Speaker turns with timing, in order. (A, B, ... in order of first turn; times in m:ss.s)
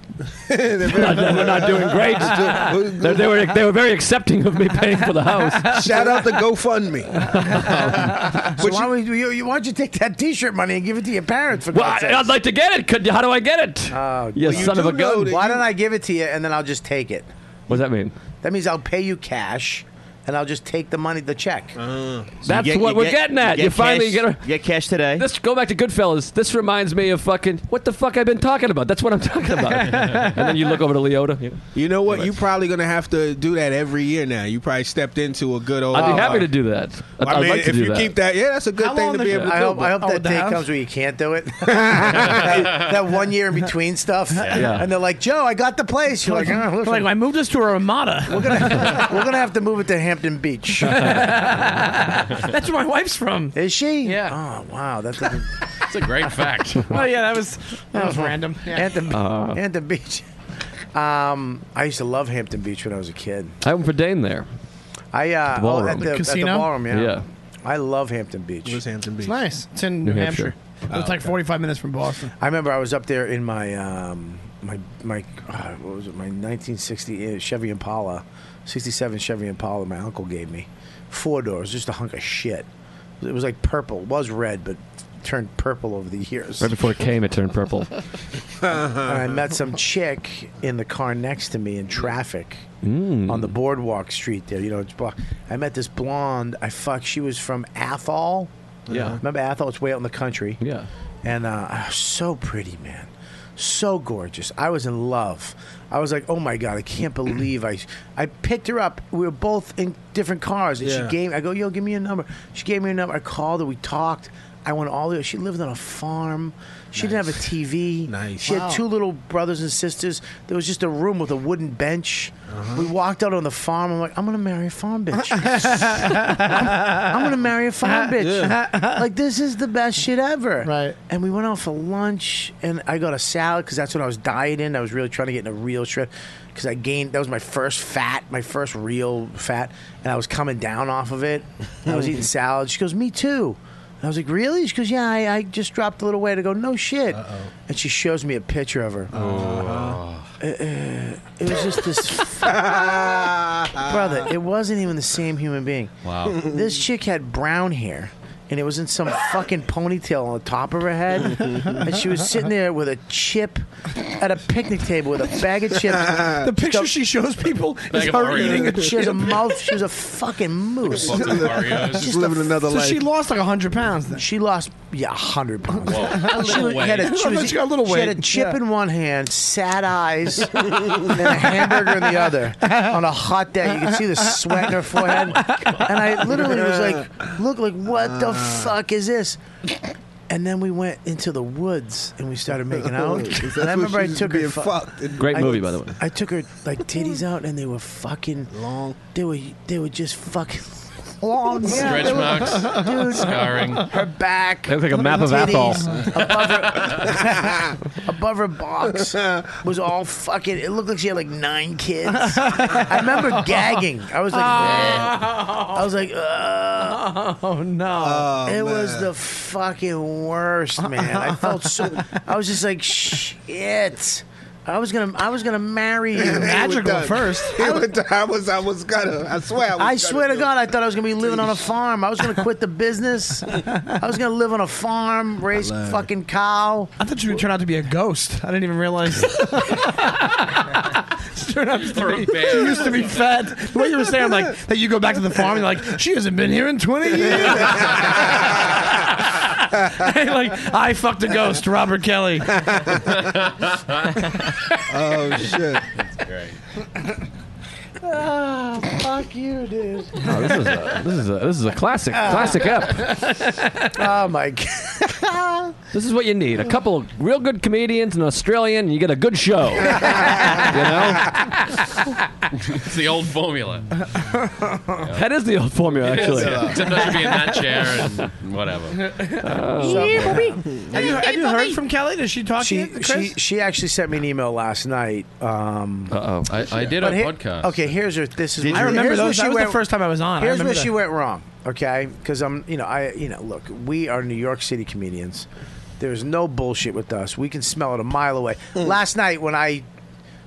0:00.4-0:03.4 A
0:00.8-0:05.8 B
0:05.4-0:06.2 C
0:05.7-0:08.9 A
0:07.3-0:08.2 B
0:07.8-0:12.4 D
0:11.7-0:15.4 B
0:13.9-0:17.8 D
0:14.4-0:15.6 A
0:17.7-0:18.1 B
0:18.4-0:21.8 D
0:21.8-0:22.3 A
0:22.4-0:24.5 B
0:22.4-0:25.3 E
0:25.1-0:32.3 B
0:29.6-0:30.5 C
0:31.7-0:36.6 A
0:35.9-0:38.2 B
0:36.0-0:36.4 C
0:37.2-0:39.9 A
0:38.8-0:40.7 C
0:39.4-0:47.2 D
0:41.7-0:42.7 A
0:44.4-0:44.7 F
0:44.5-0:44.9 B
0:46.2-0:49.1 C
0:48.3-0:51.5 D
0:50.9-0:54.4 C
0:53.5-0:55.5 D
0:55.9-0:57.0 F
0:56.8-0:59.0 C
0:58.0-1:00.2 D
0:59.1-0:59.6 B
1:00.9-1:03.5 D
1:03.6-1:04.5 B
1:05.1-1:08.8 D
1:05.5-1:06.1 B
1:06.0-1:06.7 C
1:06.9-1:07.2 B
1:08.6-1:09.4 A
1:09.2-1:12.3 C
1:10.0-1:10.5 B
1:10.9-1:11.4 A
1:12.4-1:22.6 D
1:23.2-1:26.7 D
1:26.6-1:27.9 B
1:28.6-1:29.1 A
1:28.8-1:32.6 D
1:32.8-1:33.5 B
1:33.3-1:38.5 D
1:38.9-1:39.2 A
1:38.9-1:39.2 B
1:39.2-1:40.6 D
1:40.6-1:40.9 B
1:41.2-2:29.1 D
1:50.8-1:51.1 A
1:57.0-1:57.4 A
1:58.1-1:58.5 A
1:58.4-1:58.8 C
2:02.5-2:02.8 A
2:05.2-2:07.1 C
2:07.8-2:09.0 C
2:08.2-2:08.5 A
2:10.6-2:11.0 C
2:27.2-2:27.5 A
2:29.1-2:30.0 A
2:29.1-2:30.3 F
2:30.4-2:46.9 D
2:32.4-2:34.2 A
2:36.0-2:36.4 F
2:46.0-2:46.4 A
2:46.4-2:49.8 C
2:47.9-2:48.8 F
2:48.1-2:52.6 D
2:48.4-2:48.7 A
2:51.0-2:52.1 F
2:51.2-2:53.0 A
2:52.6-2:54.2 C
2:54.2-3:09.4 D
2:55.8-2:57.2 F
2:55.9-2:58.6 C
3:00.8-3:01.2 A
3:02.6-3:02.9 C
3:03.8-3:06.4 C
3:06.6-3:07.3 A
3:08.0-3:08.7 A
3:10.3-3:18.5 D
3:12.9-3:15.9 A
3:15.2-3:16.0 B
3:18.5-3:19.0 A
3:19.1-3:37.0 D
3:21.7-3:23.9 F
3:22.1-3:23.0 C
3:24.7-3:25.8 B
3:26.0-3:27.7 A
3:29.1-3:29.6 A
3:32.2-3:33.7 C
3:34.3-3:35.8 C
3:36.8-3:38.4 C
3:38.0-3:39.1 A
3:38.4-3:46.6 D
3:40.8-3:42.2 C
3:46.1-3:50.5 A
3:46.3-3:47.6 C
3:47.6-3:47.9 D
3:49.8-3:56.9 D
3:51.2-3:51.6 A
3:55.5-3:56.0 A
3:57.0-4:12.7 C
4:01.8-4:03.2 F
4:07.2-4:08.6 A
4:12.5-4:13.3 A
4:13.0-4:14.0 F
4:14.9-4:15.8 A
4:16.1-4:16.5 F
4:18.0-4:20.6 D
4:20.2-4:23.1 B
4:22.1-4:22.8 D
4:23.2-4:23.6 C
4:23.9-4:25.7 D
4:25.9-4:31.5 B
4:32.5-4:34.1 F
4:34.9-4:35.2 F
4:35.1-4:36.8 B
4:36.0-4:37.1 A
4:36.0-4:39.2 F
4:39.0-4:43.4 C
4:39.4-4:40.4 B
4:39.8-4:41.7 D
4:40.7-4:41.2 A
4:42.6-4:46.2 D
4:46.1-4:46.7 B
4:46.5-4:47.9 F
4:46.8-4:55.4 D
4:48.6-4:49.0 E
4:48.6-4:50.9 C
4:56.0-4:59.8 D